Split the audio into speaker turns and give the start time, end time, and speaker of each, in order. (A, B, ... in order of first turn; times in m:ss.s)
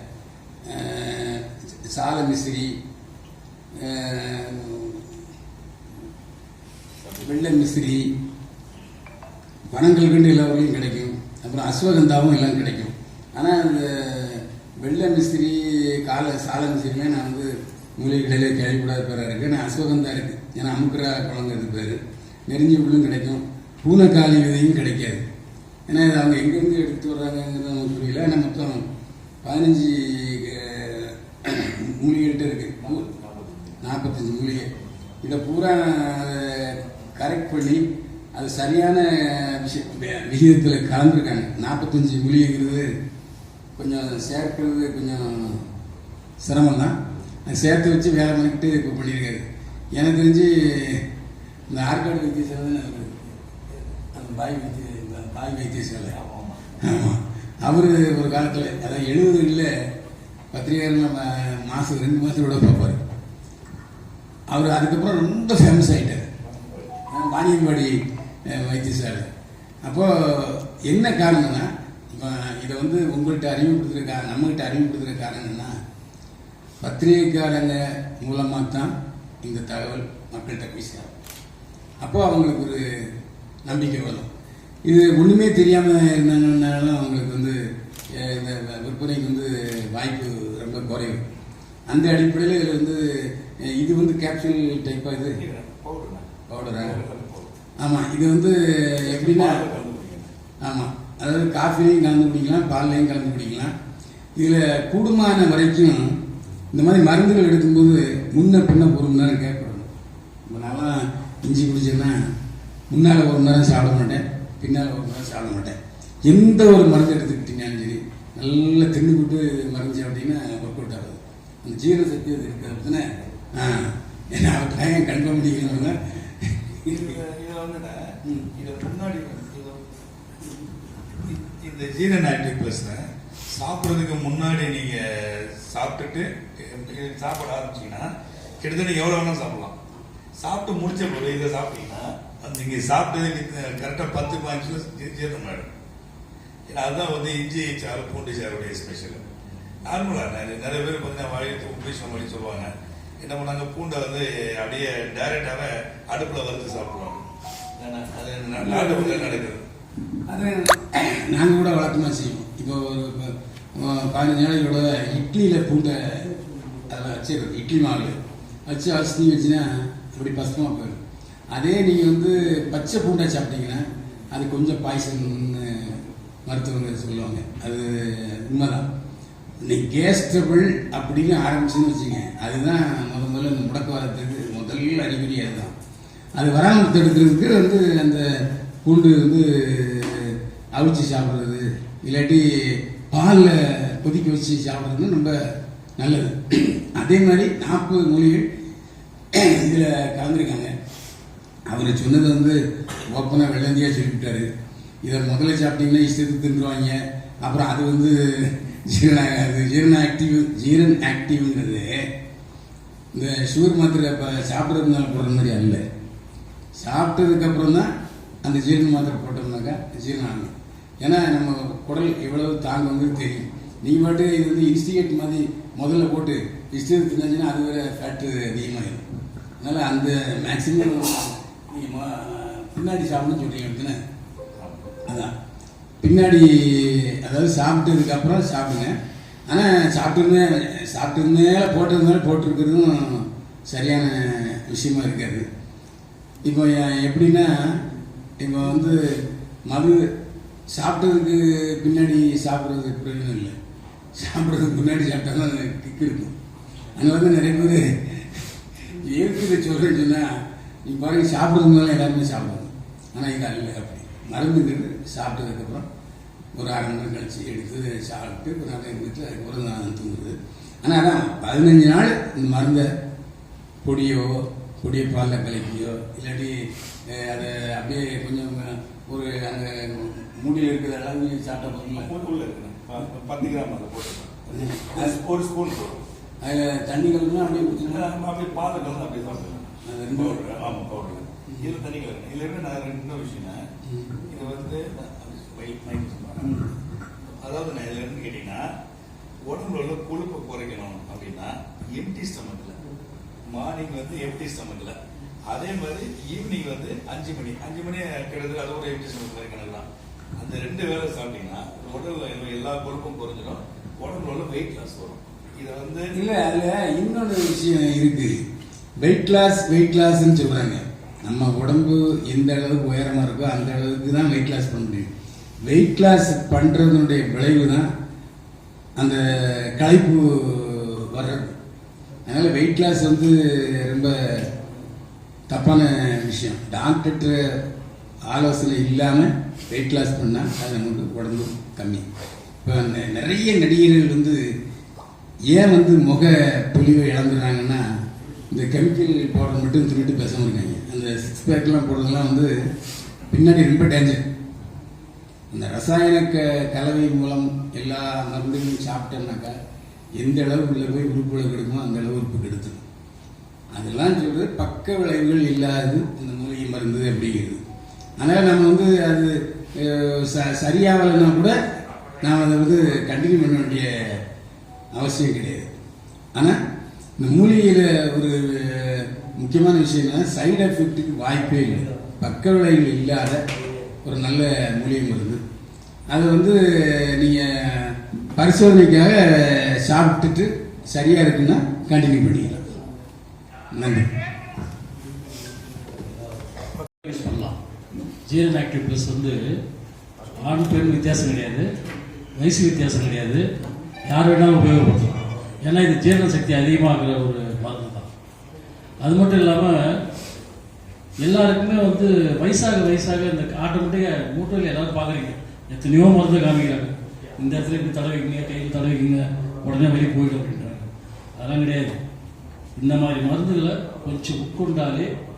0:00.7-0:02.8 A
0:03.8-0:05.1 A
0:07.0-0:07.4 B
0:07.2-0:08.1 A
0:09.7-0:25.2 A
0:25.9-0:28.8 A
0:29.4-0:33.0 A
0:32.8-0:33.8 B
0:33.8-0:34.7 A
0:35.2-0:37.8 A
0:38.3-0:42.9 A
0:43.8-0:45.7 A
0:46.4-0:51.0 A
0:51.7-0:53.3 A
0:54.1-0:56.1 A
0:56.1-0:56.8 B
0:56.8-0:59.7 A
1:00.5-1:03.0 A
1:04.5-1:06.3 A
1:06.5-1:07.0 B
1:07.1-1:07.9 A
1:08.5-1:09.3 A
1:09.8-1:15.7 A
1:16.8-1:18.9 A
1:19.4-1:21.1 A
1:22.0-1:23.1 A
1:23.6-1:24.3 A
1:24.8-1:27.6 A
1:28.1-1:31.2 A
1:31.9-1:35.4 A
1:35.2-1:37.5 B
1:36.5-1:37.0 A
1:37.8-1:39.6 A
1:39.0-1:40.3 B
1:40.6-1:43.7 A
1:44.4-1:46.2 A
1:46.7-1:49.9 A
1:50.5-1:52.2 A
1:52.9-2:07.2 A
2:06.8-2:08.0 B
2:08.5-2:09.8 B
2:11.2-2:18.1 B
2:18.6-2:19.8 B
2:20.4-2:25.7 B
2:26.7-2:29.2 B
2:29.8-2:37.2 B
2:37.8-2:39.6 B
2:38.6-2:39.4 A
2:40.3-2:51.0 A
2:51.5-2:58.9 A
2:59.6-3:05.7 A
3:06.3-3:15.4 A
3:16.0-3:18.4 A
3:19.3-3:20.7 A
3:21.7-3:22.6 A
3:23.1-3:24.5 A
3:25.0-3:32.1 A
3:33.1-3:35.8 A
3:36.8-3:37.9 A
3:38.4-3:49.0 A
3:49.6-3:54.0 A
3:54.6-3:54.9 B
3:55.0-3:55.3 A
3:56.0-3:58.9 A
3:59.5-4:05.4 A
4:06.4-4:07.8 A
4:08.4-4:10.1 A
4:10.7-4:13.6 A
4:14.1-4:16.3 A
4:16.9-4:25.8 A
4:26.5-4:32.9 A
4:33.8-4:36.6 A
4:37.1-4:42.1 A
4:41.7-4:46.0 B
4:44.5-4:45.1 A
4:46.4-4:48.1 A
4:47.8-4:53.6 B
4:49.8-4:50.4 A
4:53.9-4:54.2 A
4:54.3-4:56.6 B
4:56.4-4:56.7 A
4:57.4-4:58.6 B
4:59.4-5:02.8 B
5:03.5-5:05.0 B
5:05.5-5:09.9 B
5:10.4-5:16.1 B
5:16.1-5:18.3 A
5:19.0-5:25.1 A
5:25.6-5:27.9 A
5:29.0-5:31.5 A
5:32.2-5:34.5 A
5:35.5-5:37.6 A
5:38.3-5:42.0 A
5:42.6-5:44.4 A
5:45.5-5:47.8 A
5:48.5-5:52.5 A
5:53.3-5:54.2 A
5:55.5-5:59.6 A
6:00.2-6:02.8 A
6:03.7-6:07.6 A
6:08.2-6:11.6 A
6:12.2-6:14.2 A
6:14.9-6:15.7 A
6:17.2-6:23.4 A
6:24.0-6:25.4 A
6:26.1-6:32.6 A
6:33.7-6:34.1 A
6:37.0-6:37.6 C
6:38.2-6:39.4 C
6:40.3-6:41.7 C
6:42.4-6:43.4 C
6:44.1-6:48.1 C
6:49.0-6:49.9 C
6:51.2-7:02.0 C
7:02.8-7:05.1 C